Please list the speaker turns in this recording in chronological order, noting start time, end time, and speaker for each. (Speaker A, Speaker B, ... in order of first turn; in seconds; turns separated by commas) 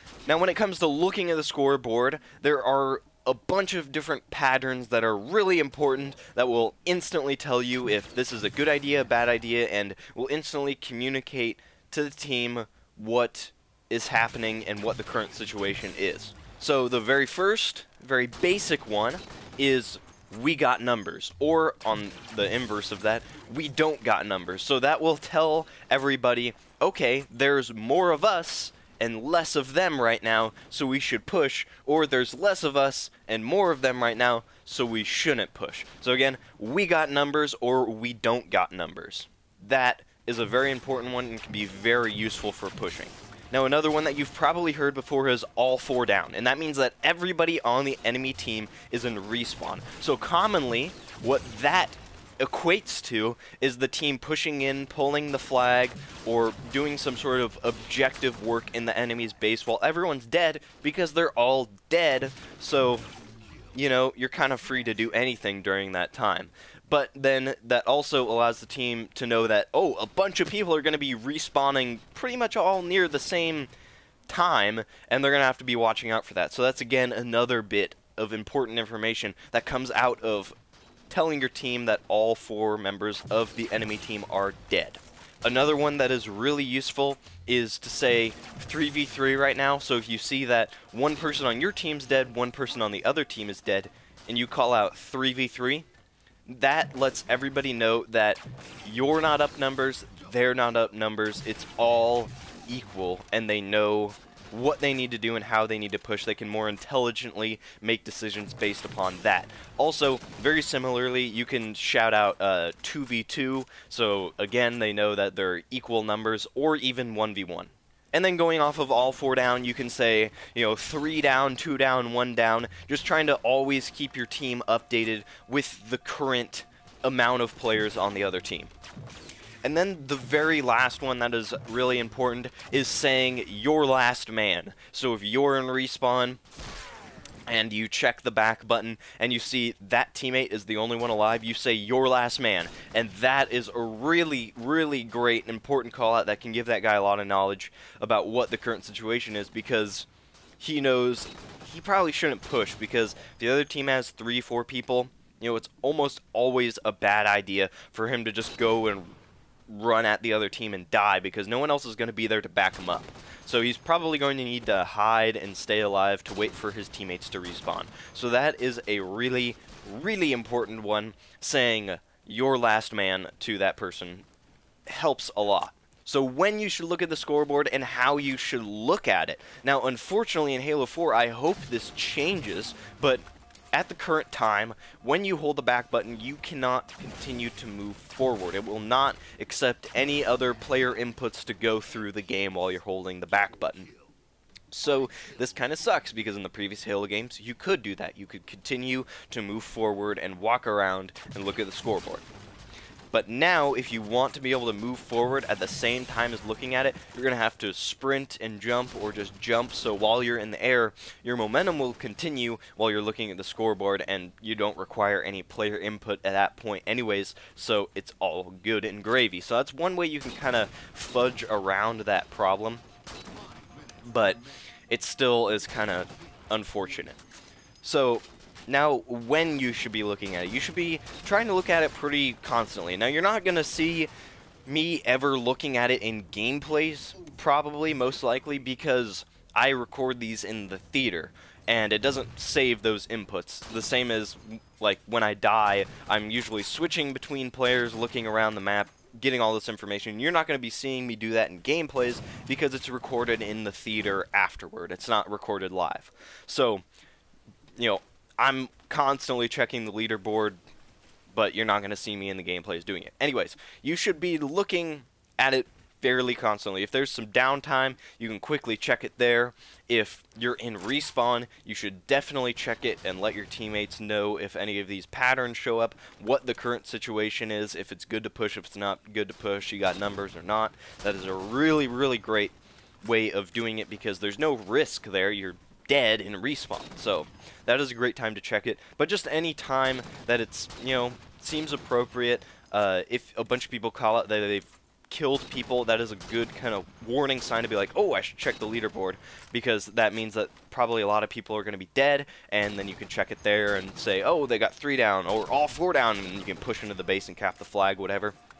Speaker A: 0.3-63.1, Speaker A: 63.7-73.7, Speaker A: 74.3-80.5, Speaker A: 81.1-95.9, Speaker A: 96.5-128.7, Speaker A: 129.6-136.4, Speaker A: 137.5-150.1, Speaker A: 150.6-159.2, Speaker A: 159.7-174.2, Speaker A: 174.9-193.9, Speaker A: 194.7-202.3, Speaker A: 203.1-222.8, Speaker A: 224.0-227.2, Speaker A: 227.8-234.1, Speaker A: 234.7-256.8, Speaker A: 257.8-260.6, Speaker A: 261.3-308.4